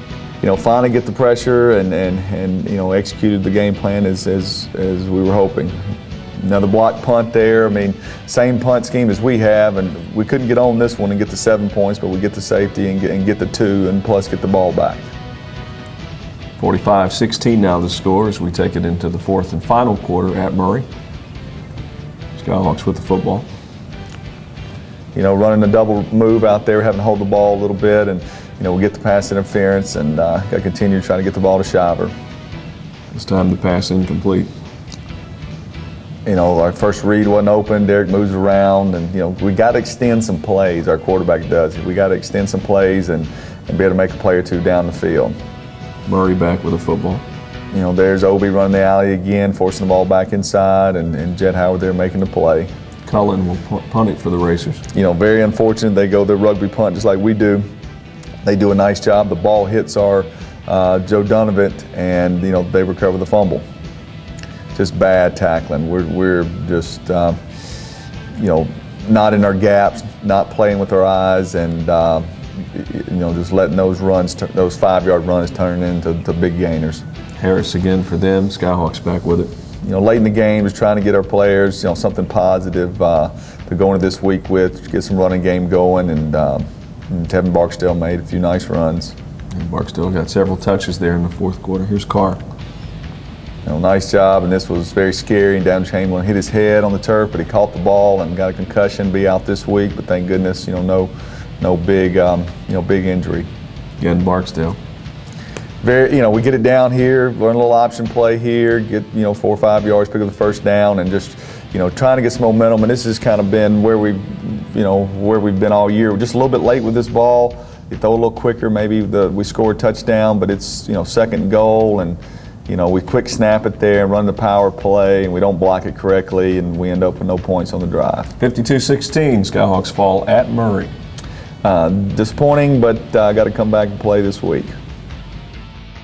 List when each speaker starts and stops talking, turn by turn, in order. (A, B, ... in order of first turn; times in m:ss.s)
0:00.4-0:05.8 A
0:06.4-0:15.0 A
0:16.6-0:20.9 B
0:22.4-0:23.5 B
0:25.1-0:32.1 A
0:33.1-0:34.5 B
0:36.2-0:45.4 A
0:46.1-0:47.2 B
0:47.7-0:52.7 A
0:53.0-0:54.8 B
0:54.9-0:57.6 A
0:58.4-1:03.6 A
1:04.8-1:07.4 A
1:08.4-1:17.0 A
1:17.4-1:19.5 B
1:19.8-1:29.2 A
1:29.5-1:32.4 B
1:33.6-1:43.5 A
1:44.0-1:44.8 B
1:45.8-2:08.3 A
2:08.4-2:10.9 B
2:11.6-2:14.7 A